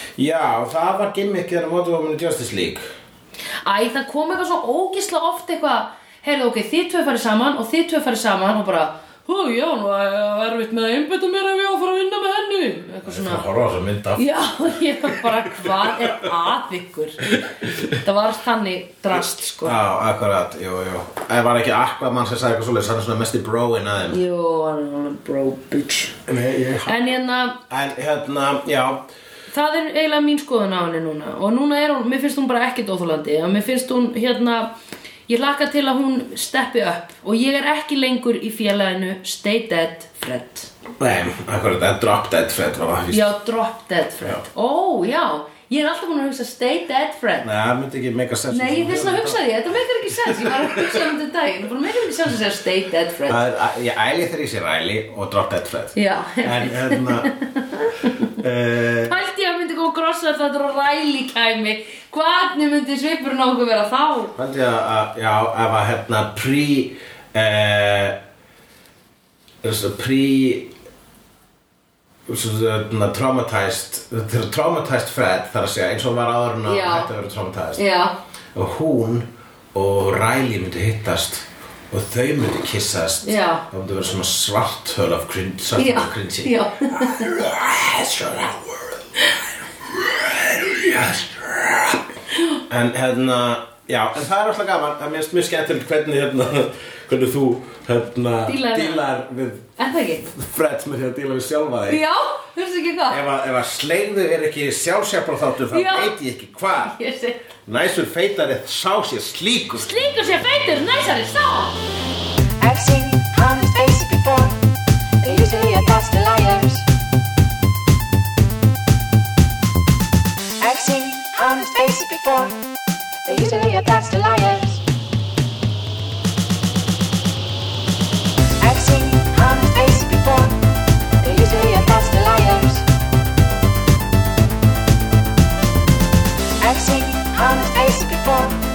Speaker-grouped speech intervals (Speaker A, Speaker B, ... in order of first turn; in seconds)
Speaker A: 0.2-2.9, 13.0-16.2, 19.6-24.2, 26.3-27.0, 27.7-29.0, 41.0-43.3, 47.4-51.2, 53.3-57.3, 58.4-59.2, 64.3-68.2, 69.6-70.7, 72.3-77.8, 78.5-89.0, 89.9-92.1, 92.7-99.7, 100.3-102.0, 103.1-106.9, 107.7-109.9
Speaker B: 3.6-13.4, 14.2-17.3, 17.9-19.8, 24.1-26.2, 26.8-27.6, 29.5-34.7, 35.3-40.7, 43.1-47.5, 48.5-53.4, 55.9-58.3, 59.1-64.3, 76.7-77.1, 77.8-78.2, 83.2-83.7, 85.8-87.3, 98.5-99.1, 99.8-100.3, 101.9-103.2, 105.7-106.1, 106.8-107.4, 109.7-111.8
Speaker C: 112.6-114.5, 115.2-116.8, 120.6-122.5, 123.2-124.8, 128.6-130.6, 131.2-132.9, 136.6-138.6